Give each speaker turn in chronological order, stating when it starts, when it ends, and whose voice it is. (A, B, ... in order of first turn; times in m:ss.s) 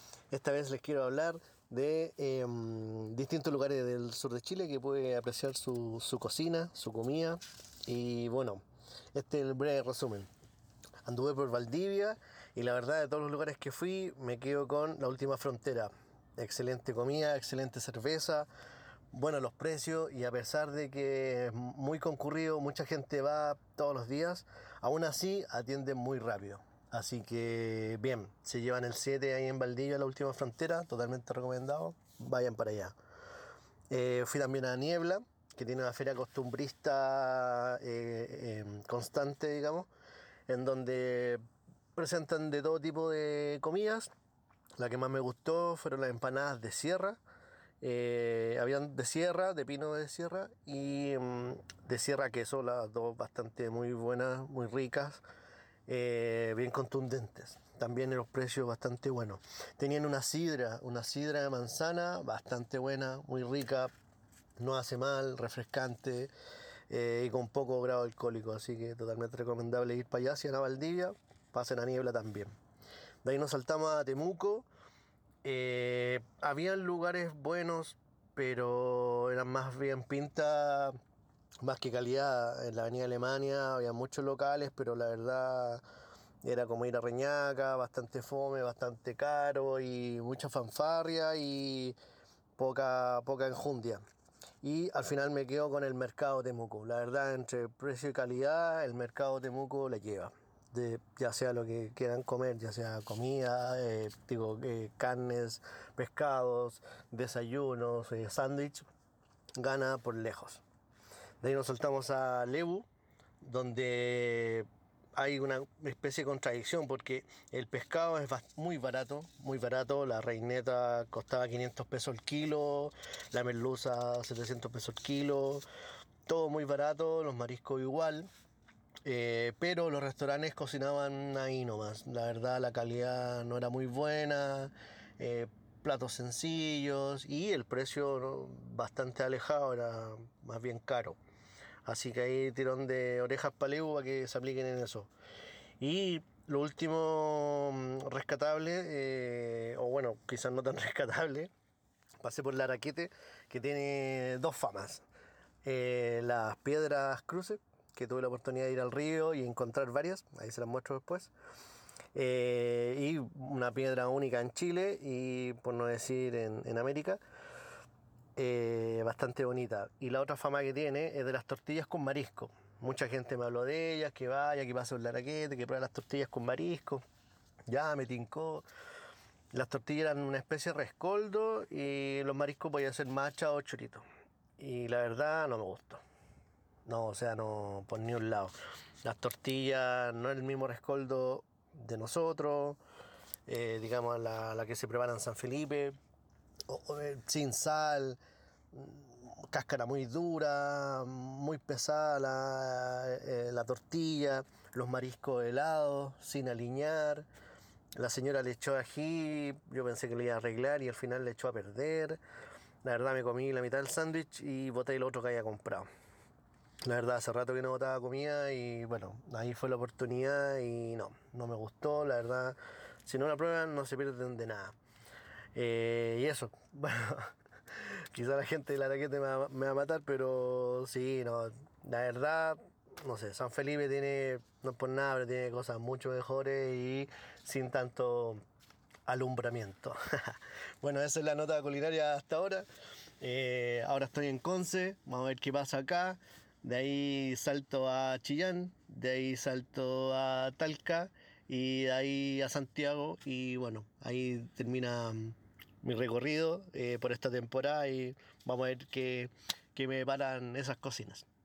0:00.3-0:10.3 A
0:11.0-0:18.5 A
0:19.1-0:32.9 A
0:33.9-0:39.9 A
0:40.5-0:41.4 A
0:41.9-0:44.1 A
0:44.8-0:47.2 A
0:47.8-0:55.2 A
0:55.9-1:03.9 A
1:04.6-1:06.3 A
1:06.9-1:12.5 A
1:13.2-1:14.7 A
1:15.4-1:21.0 A
1:21.6-1:25.8 A
1:26.4-1:32.0 A
1:32.6-1:34.0 A
1:34.6-1:48.8 A
1:49.6-1:50.6 A
1:51.4-1:52.8 A
1:53.4-2:05.6 A
2:06.2-2:08.3 A
2:09.0-2:21.2 A
2:21.8-2:25.1 A
2:25.8-2:31.5 A
2:32.2-2:35.0 A
2:35.6-2:41.3 A
2:42.1-2:47.2 A
2:48.4-2:57.0 A
2:57.7-2:58.6 A
2:59.5-3:04.0 A
3:04.6-3:06.0 A
3:06.8-3:12.8 A
3:13.5-3:16.0 A
3:16.7-3:18.2 A
3:18.7-3:27.3 A
3:28.0-3:32.2 A
3:32.8-3:35.9 A
3:36.8-3:44.7 A
3:45.5-3:58.4 A
3:59.0-4:02.6 A
4:03.2-4:21.2 A